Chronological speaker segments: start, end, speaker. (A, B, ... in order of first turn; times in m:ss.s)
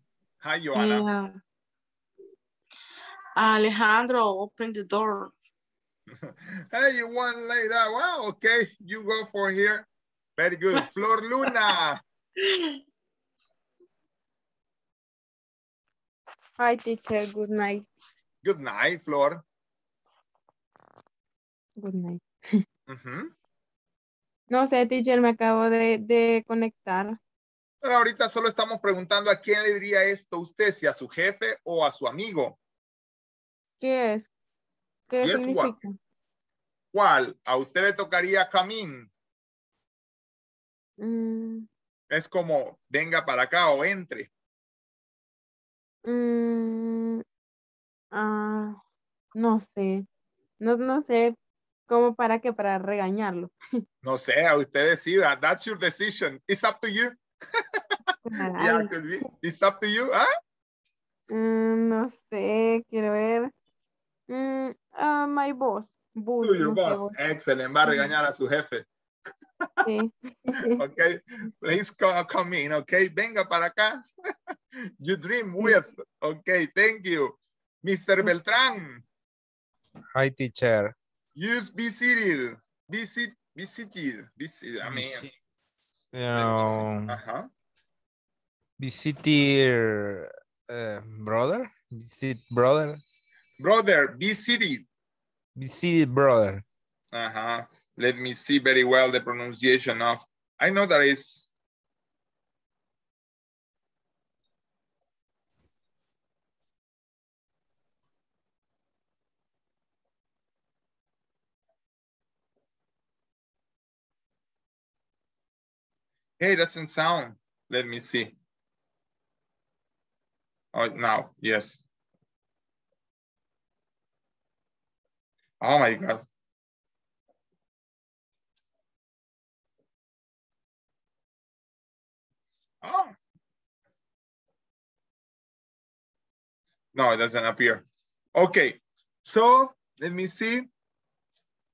0:00.4-0:01.1 A
0:00.7-0:01.4 B
0:03.4-0:05.3 B
0:06.2-0:12.0 A
0:16.6-0:17.9 C
0:18.4-0:19.4 A
0:21.8-0:22.2 C
0:22.9-0:23.3 A
0:24.5-0:27.2 C
0:27.8-0:32.6 A
0:33.8-0:34.3 C
0:35.1-0:35.9 C
0:35.2-0:35.8 A
0:36.9-0:39.1 A
0:41.0-0:41.7 C
0:42.1-0:44.3 A
0:46.0-0:47.2 C
0:48.1-0:48.8 C
0:49.3-0:50.0 C
0:50.6-0:51.4 C
0:51.9-0:53.5 C
0:54.0-0:57.2 A
0:58.2-0:59.2 C
0:58.5-1:00.3 A
1:01.3-1:03.5 C
1:04.3-1:07.1 C
1:06.4-1:08.8 A
1:09.8-1:10.7 C
1:10.7-1:14.0 A
1:15.0-1:19.0 A
1:20.1-1:20.9 D
1:21.4-1:25.3 A
1:24.8-1:25.3 D
1:26.1-1:27.2 D
1:26.3-1:27.5 A
1:28.8-1:33.0 D
1:33.6-1:34.8 A
1:35.6-1:36.6 D
1:37.1-1:41.5 A
1:56.4-1:58.3 A
2:00.7-2:01.8 A
2:05.6-2:06.2 A
2:12.8-2:13.1 A
2:16.9-2:17.8 A
2:18.4-2:20.7 A